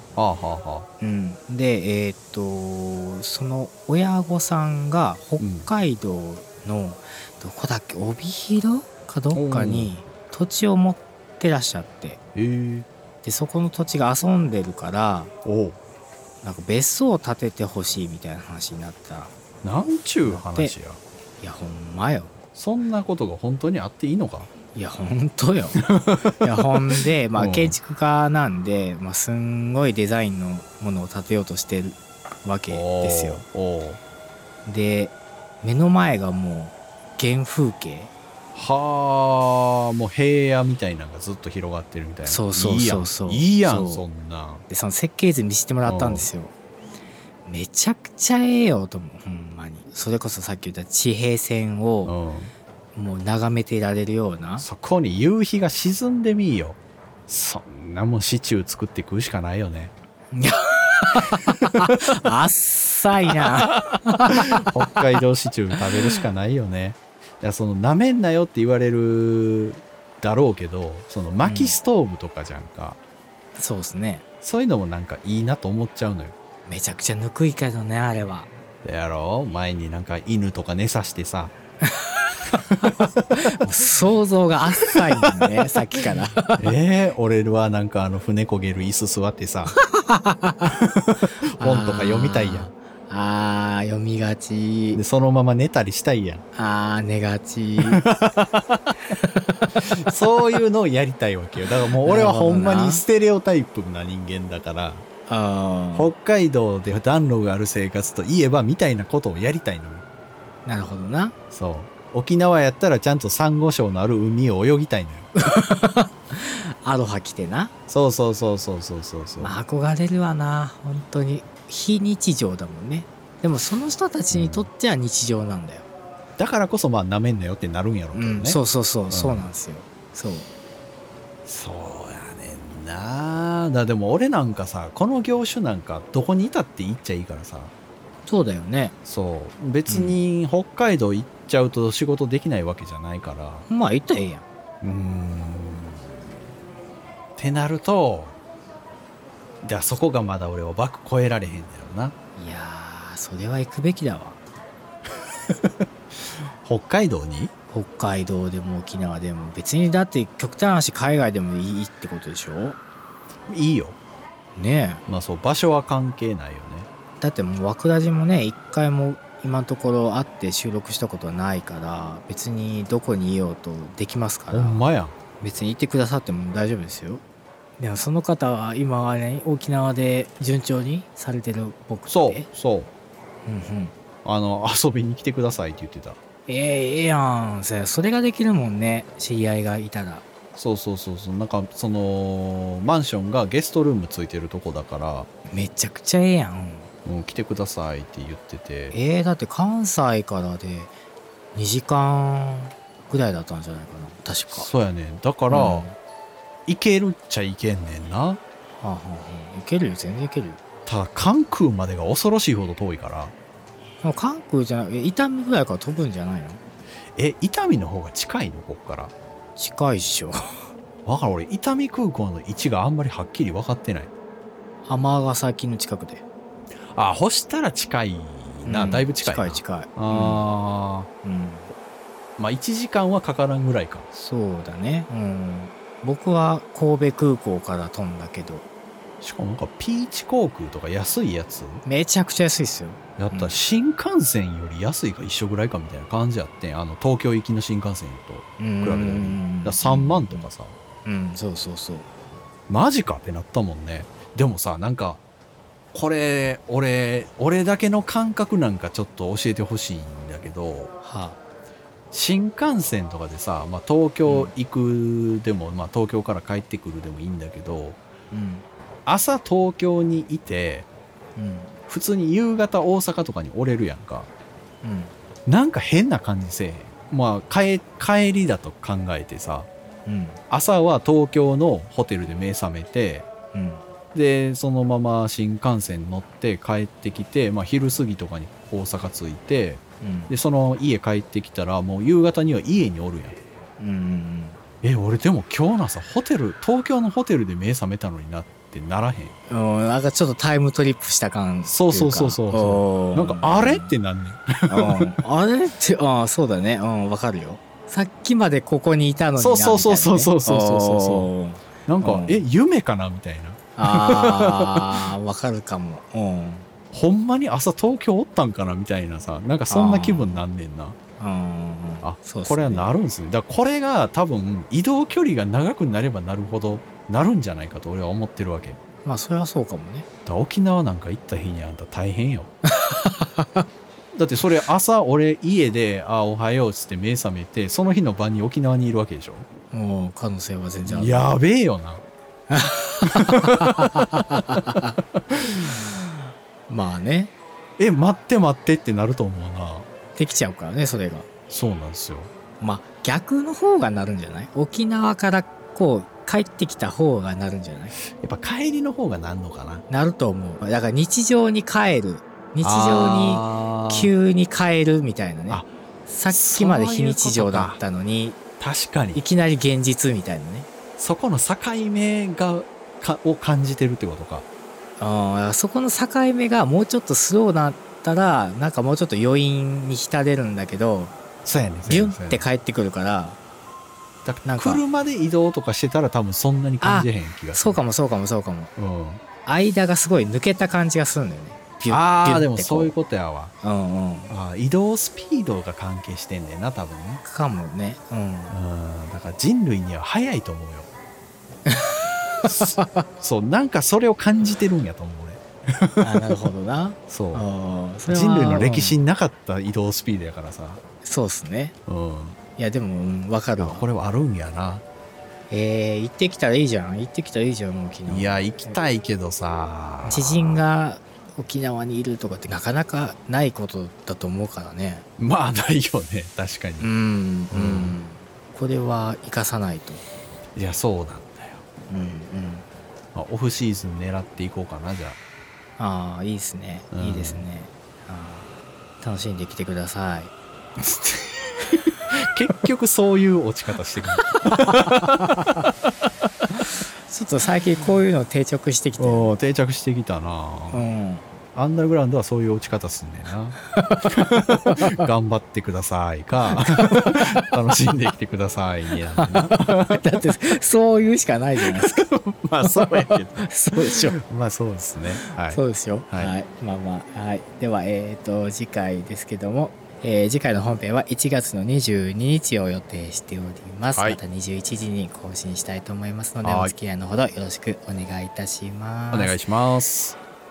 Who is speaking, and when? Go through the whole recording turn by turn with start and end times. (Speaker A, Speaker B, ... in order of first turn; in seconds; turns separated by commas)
Speaker A: 0.1-0.9, Speaker B: 1.0-12.2, Speaker A: 5.4-5.7, Speaker A: 9.3-9.9, Speaker A: 12.3-12.9, Speaker B: 13.2-15.3, Speaker A: 15.4-15.8, Speaker B: 16.4-19.3, Speaker A: 19.6-21.0, Speaker B: 20.2-20.8, Speaker B: 21.4-22.3, Speaker A: 22.5-24.5, Speaker B: 24.7-25.8, Speaker A: 25.7-27.8, Speaker B: 26.4-33.4, Speaker A: 32.7-34.0, Speaker B: 34.6-38.1, Speaker A: 38.5-44.6, Speaker B: 42.2-44.0, Speaker B: 44.7-46.5, Speaker A: 45.8-46.3, Speaker B: 47.4-52.1, Speaker A: 52.0-52.5, Speaker B: 52.9-54.6, Speaker A: 54.6-59.9, Speaker B: 60.3-65.0, Speaker A: 64.3-73.0, Speaker B: 71.4-71.8, Speaker B: 73.5-74.2, Speaker A: 74.4-76.3, Speaker B: 76.7-78.5, Speaker A: 78.8-81.5, Speaker B: 81.8-82.9, Speaker B: 83.4-86.6, Speaker A: 86.6-89.8, Speaker B: 89.7-90.7, Speaker A: 90.7-92.7, Speaker B: 91.6-95.0, Speaker A: 94.9-96.4, Speaker B: 96.5-98.0, Speaker A: 97.8-98.6, Speaker B: 99.1-99.8, Speaker A: 99.8-105.0, Speaker B: 102.0-103.0, Speaker B: 105.3-106.1, Speaker A: 105.9-110.0, Speaker B: 110.6-111.3, Speaker A: 111.5-115.3, Speaker B: 115.4-117.7, Speaker A: 117.9-119.5, Speaker B: 119.4-125.9, Speaker A: 124.3-124.7, Speaker A: 126.4-129.5, Speaker B: 128.1-130.5, Speaker A: 131.4-137.7, Speaker B: 138.2-138.9, Speaker A: 139.1-143.7, Speaker B: 139.9-140.2, Speaker B: 143.7-144.4, Speaker A: 144.8-146.1, Speaker A: 147.4-148.4, Speaker A: 149.6-152.1, Speaker B: 152.3-154.4, Speaker A: 156.6-157.5, Speaker B: 157.7-162.8, Speaker A: 163.5-164.0, Speaker B: 164.5-165.0, Speaker A: 165.1-166.9, Speaker B: 167.2-174.8, Speaker A: 174.5-175.2, Speaker B: 175.4-177.2, Speaker B: 177.8-182.5, Speaker A: 182.1-182.9, Speaker B: 183.4-183.9, Speaker A: 184.2-186.2, Speaker B: 186.5-190.2, Speaker A: 190.6-195.3, Speaker B: 195.5-196.9, Speaker A: 197.0-198.9, Speaker B: 198.9-200.9, Speaker B: 201.5-204.7, Speaker A: 204.5-205.9, Speaker B: 205.5-205.9, Speaker A: 206.7-208.4, Speaker B: 208.8-210.6, Speaker A: 210.8-213.3, Speaker B: 214.0-216.6, Speaker A: 217.2-219.1, Speaker B: 219.6-220.6, Speaker A: 221.0-224.1, Speaker B: 224.8-226.2, Speaker A: 226.9-231.1, Speaker B: 228.6-230.5, Speaker B: 231.2-231.7, Speaker A: 232.4-234.1, Speaker B: 234.1-238.7, Speaker A: 239.2-241.8, Speaker B: 241.8-243.6, Speaker A: 243.2-250.7, Speaker B: 248.6-250.5, Speaker B: 251.0-252.1, Speaker A: 252.7-255.2, Speaker A: 255.9-260.9, Speaker B: 261.0-261.4, Speaker A: 262.1-268.0, Speaker B: 264.2-264.5, Speaker B: 268.3-268.6, Speaker A: 269.1-270.9, Speaker B: 271.4-271.7, Speaker A: 271.9-274.3, Speaker B: 274.8-275.1, Speaker A: 275.4-279.7, Speaker B: 280.0-280.4, Speaker A: 280.5-283.2, Speaker B: 283.5-283.8, Speaker A: 284.1-293.4, Speaker B: 290.0-290.3, Speaker B: 293.8-294.6, Speaker A: 294.8-299.3, Speaker B: 299.5-303.9, Speaker A: 301.6-305.2, Speaker B: 304.7-312.4, Speaker A: 309.4-311.3, Speaker A: 311.9-315.0, Speaker B: 313.8-316.7, Speaker A: 316.9-320.9, Speaker B: 319.7-320.4, Speaker B: 321.2-322.9, Speaker A: 322.0-328.8, Speaker B: 329.0-330.1, Speaker A: 330.2-332.5, Speaker B: 332.6-333.6, Speaker A: 334.1-339.5, Speaker B: 339.7-341.3, Speaker A: 340.9-342.0, Speaker B: 342.5-345.0, Speaker A: 343.0-344.0, Speaker A: 344.5-345.7, Speaker B: 345.9-347.3, Speaker A: 347.8-349.9, Speaker B: 350.1-351.3, Speaker A: 351.5-352.3, Speaker B: 352.6-357.9, Speaker A: 358.1-359.8, Speaker B: 359.9-368.4, Speaker A: 362.6-364.1, Speaker A: 366.3-367.8, Speaker A: 368.6-369.2, Speaker B: 369.1-370.7, Speaker A: 371.0-374.4, Speaker B: 375.0-381.1, Speaker A: 381.4-382.4, Speaker B: 381.9-383.4, Speaker A: 384.2-387.8, Speaker B: 384.4-384.8, Speaker B: 386.8-388.7, Speaker A: 388.8-389.2, Speaker B: 389.4-392.9, Speaker A: 391.9-393.5, Speaker B: 393.6-394.3, Speaker A: 394.3-397.2, Speaker B: 397.2-398.6, Speaker A: 398.5-400.9, Speaker B: 401.7-403.1, Speaker A: 402.4-406.4, Speaker B: 406.0-409.1, Speaker A: 407.1-407.4, Speaker A: 408.1-410.8, Speaker B: 411.0-411.7, Speaker A: 411.9-412.4, Speaker B: 412.6-413.9, Speaker A: 413.6-414.8, Speaker B: 415.5-418.8, Speaker A: 418.1-420.6, Speaker B: 420.0-425.1, Speaker A: 425.2-426.9, Speaker B: 426.8-430.0, Speaker A: 427.5-428.0, Speaker A: 430.5-431.6, Speaker B: 431.9-432.6, Speaker A: 433.1-435.2, Speaker B: 435.8-440.3, Speaker A: 436.9-437.4, Speaker A: 441.7-445.6, Speaker B: 444.4-445.5, Speaker B: 447.0-449.3, Speaker A: 449.0-450.8, Speaker B: 450.7-451.2, Speaker A: 451.5-460.0, Speaker B: 456.5-457.2, Speaker B: 459.2-462.1, Speaker A: 461.6-466.3, Speaker B: 462.6-464.2, Speaker B: 465.2-479.4, Speaker A: 473.9-474.2, Speaker A: 476.4-476.7, Speaker A: 479.1-480.2